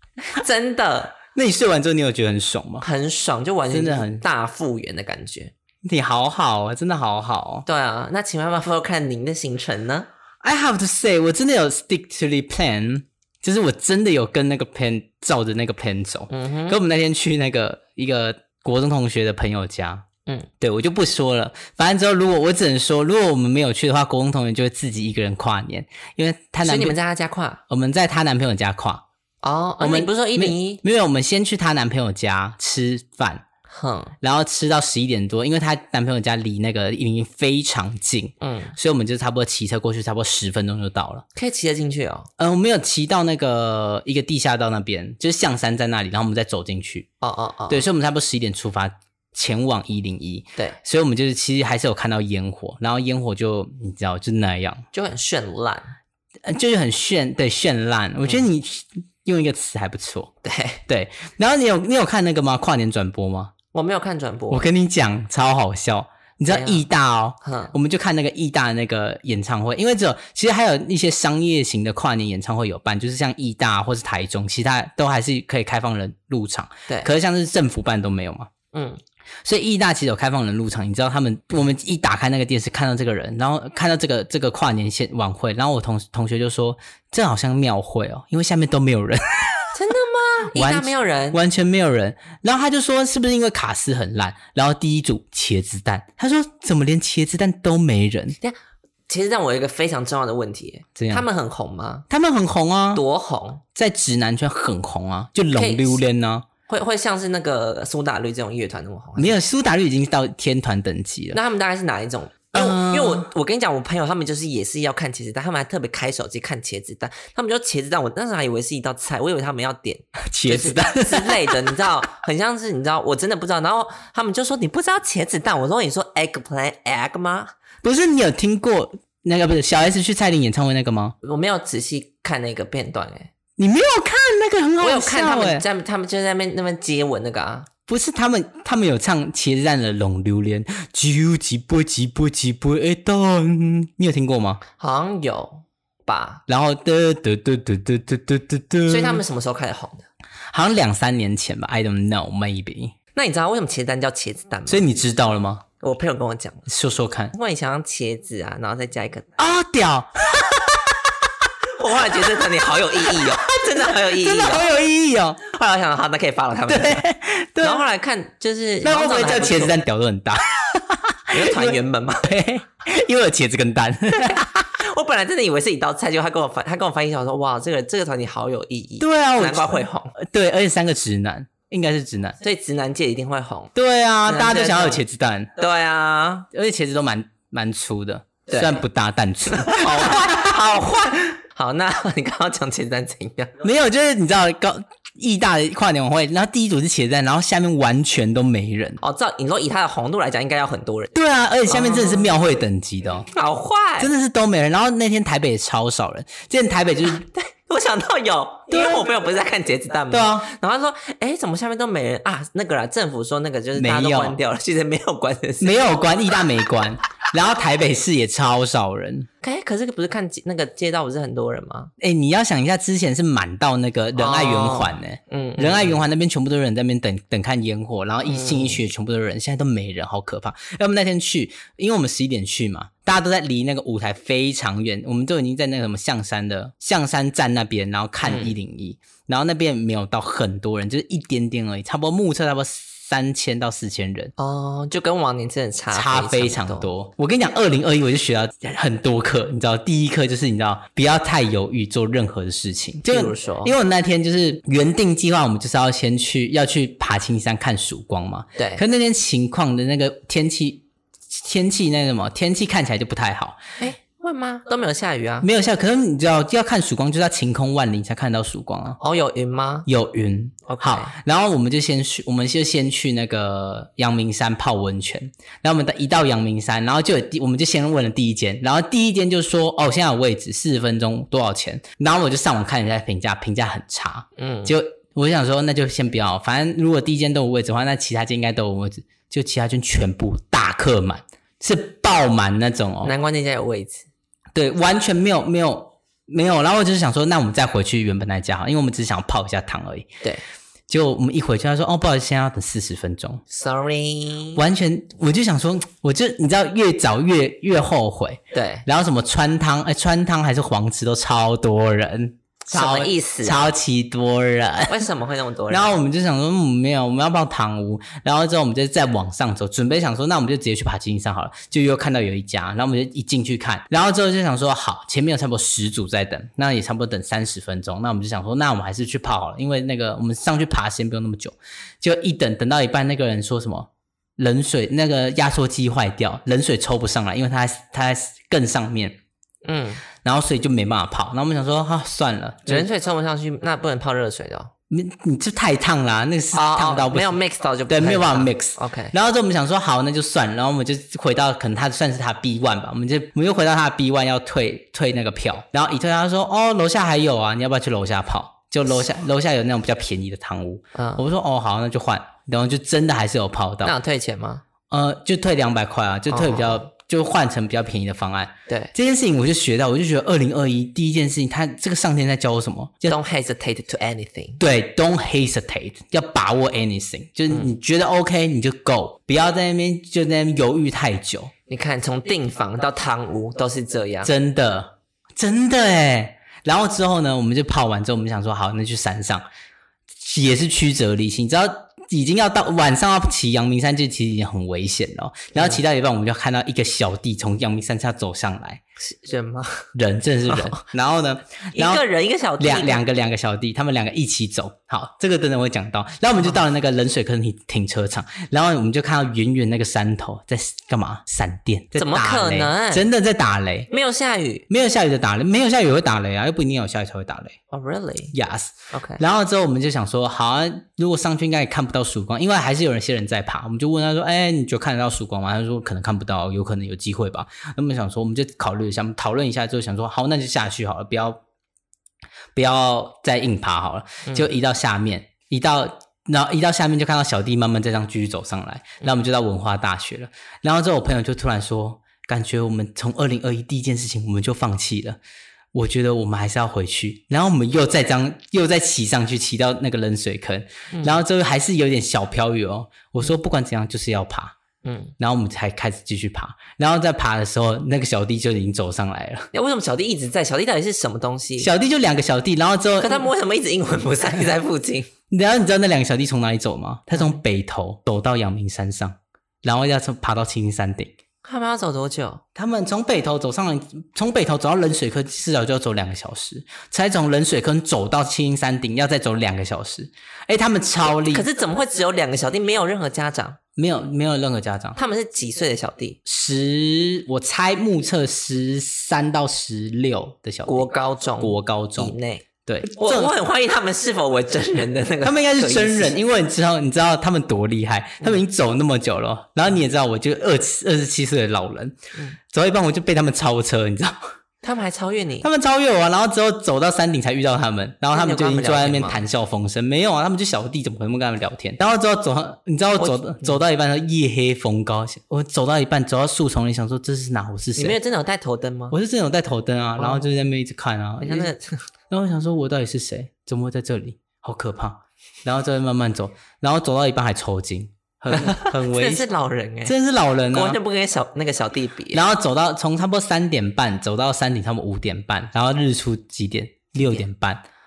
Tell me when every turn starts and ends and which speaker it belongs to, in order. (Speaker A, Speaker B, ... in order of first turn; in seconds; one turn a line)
Speaker A: 0.2-1.2
Speaker B: 1.3-2.9
Speaker A: 2.8-5.5
Speaker B: 3.7-4.2
Speaker B: 5.8-7.7
Speaker A: 7.7-10.1
Speaker B: 10.4-20.1
Speaker A: 16.3-16.8
Speaker B: 20.6-27.0
Speaker A: 26.6-27.6
Speaker B: 27.7-29.1
Speaker A: 29.4-30.8
Speaker B: 29.8-33.4
Speaker A: 33.7-34.1
Speaker B: 34.2-41.2
Speaker A: 38.4-38.8
Speaker A: 41.4-42.3
Speaker B: 42.4-47.1
Speaker A: 47.2-47.8
Speaker B: 47.7-54.9
Speaker A: 54.9-55.9
Speaker B: 56.4-60.3
Speaker A: 60.4-60.8
Speaker B: 60.9-63.5
Speaker A: 63.7-64.7
Speaker B: 64.5-78.5
Speaker A: 66.5-66.8
Speaker A: 67.4-67.7
Speaker A: 78.7-79.0
Speaker B: 79.4-89.7
Speaker A: 89.8-91.4
Speaker B: 90.5-98.4
Speaker A: 99.1-102.1
Speaker B: 101.0-101.3
Speaker B: 102.1-103.0
Speaker A: 102.9-103.6
Speaker B: 103.8-106.4
Speaker A: 105.5-106.0
Speaker A: 106.7-109.4
Speaker B: 109.2-111.4
Speaker A: 111.3-127.5
Speaker B: 112.5-113.3
Speaker B: 120.3-121.7
Speaker B: 127.8-131.1
Speaker A: 131.2-133.3
Speaker B: 133.6-135.6
Speaker A: 134.8-137.7
Speaker B: 137.9-144.6
Speaker A: 144.8-146.4
Speaker B: 146.5-149.2
Speaker A: 148.9-150.1
Speaker B: 150.5-152.9
Speaker A: 153.1-154.8
Speaker B: 154.7-155.6
Speaker A: 155.8-156.7
Speaker B: 156.7-157.3
Speaker A: 157.3-159.4
Speaker B: 159.4-160.9
Speaker A: 161.8-164.7
Speaker B: 164.0-165.4
Speaker A: 165.4-167.1
Speaker B: 166.7-167.8
Speaker A: 167.6-169.8
Speaker B: 168.8-174.7
Speaker A: 171.3-172.3
Speaker A: 174.1-180.2
Speaker B: 179.0-182.4
Speaker A: 182.4-183.7
Speaker B: 183.8-185.5
Speaker A: 184.3-185.0
Speaker A: 185.6-186.5
Speaker B: 186.5-190.5
Speaker A: 188.5-188.8
Speaker A: 189.5-193.6
Speaker B: 193.6-199.0
Speaker A: 199.0-201.1
Speaker B: 201.1-203.3
Speaker A: 201.7-202.3
Speaker A: 203.3-204.1
Speaker B: 204.0-207.2
Speaker A: 207.1-215.9
Speaker B: 208.7-209.1
Speaker B: 210.1-210.5
Speaker B: 213.8-214.4
Speaker B: 215.6-219.3
Speaker A: 219.4-221.9
Speaker B: 222.0-244.3
Speaker A: 224.2-226.0
Speaker A: 228.3-228.8
Speaker A: 238.2-238.6
Speaker A: 244.4-246.9
Speaker B: 245.9-263.6
Speaker A: 253.0-253.7
Speaker A: 258.6-258.8
Speaker A: 263.8-265.5
Speaker B: 265.4-269.0
Speaker A: 269.0-269.9
Speaker B: 269.9-293.1
Speaker A: 270.7-271.1
Speaker A: 284.4-284.8
Speaker A: 293.0-294.1
Speaker B: 294.6-300.2
Speaker B: 300.9-303.4
Speaker A: 303.5-304.6
Speaker B: 304.6-315.0
Speaker A: 308.5-308.9
Speaker A: 312.7-313.7
Speaker A: 314.9-315.9
Speaker B: 315.7-339.2
Speaker A: 339.6-340.0
Speaker B: 340.2-342.9
Speaker A: 342.7-344.7
Speaker B: 344.9-363.9
Speaker A: 346.5-349.1
Speaker A: 360.9-361.2
Speaker A: 363.8-364.6
Speaker B: 364.9-373.1
Speaker A: 366.3-366.9
Speaker A: 368.7-368.9
Speaker A: 373.1-374.6
Speaker B: 374.6-381.5
Speaker A: 381.7-384.3
Speaker B: 384.2-389.4
Speaker B: 390.2-398.8
Speaker A: 399.0-399.9
Speaker B: 399.9-402.0
Speaker A: 400.5-400.9
Speaker A: 401.8-403.0
Speaker B: 402.6-413.9
Speaker A: 411.9-413.1
Speaker A: 413.9-414.6
Speaker B: 414.7-417.6
Speaker A: 417.7-418.4
Speaker B: 418.3-431.4
Speaker A: 418.9-419.2
Speaker B: 432.6-445.2
Speaker B: 445.7-454.6
Speaker A: 450.9-451.2
Speaker A: 454.8-455.1
Speaker B: 455.2-459.5
Speaker A: 459.5-461.7
Speaker B: 461.6-463.3
Speaker A: 463.0-465.1
Speaker B: 465.3-471.1
Speaker A: 467.1-467.4
Speaker A: 471.4-472.4
Speaker B: 472.6-481.5
Speaker A: 481.1-483.6
Speaker B: 483.8-485.0
Speaker A: 485.0-486.2
Speaker B: 486.3-492.1
Speaker A: 490.6-496.2
Speaker B: 492.6-493.3
Speaker B: 495.2-502.0
Speaker B: 502.5-504.2
Speaker A: 504.6-505.5
Speaker B: 505.4-518.0
Speaker A: 508.1-509.2
Speaker A: 513.0-513.6
Speaker A: 517.8-519.0
Speaker B: 518.9-521.5
Speaker A: 520.0-520.3
Speaker A: 521.2-521.8
Speaker B: 522.1-529.2
Speaker A: 528.3-530.0
Speaker B: 529.9-530.8
Speaker A: 530.5-532.2
Speaker B: 532.1-537.6
Speaker A: 537.0-537.3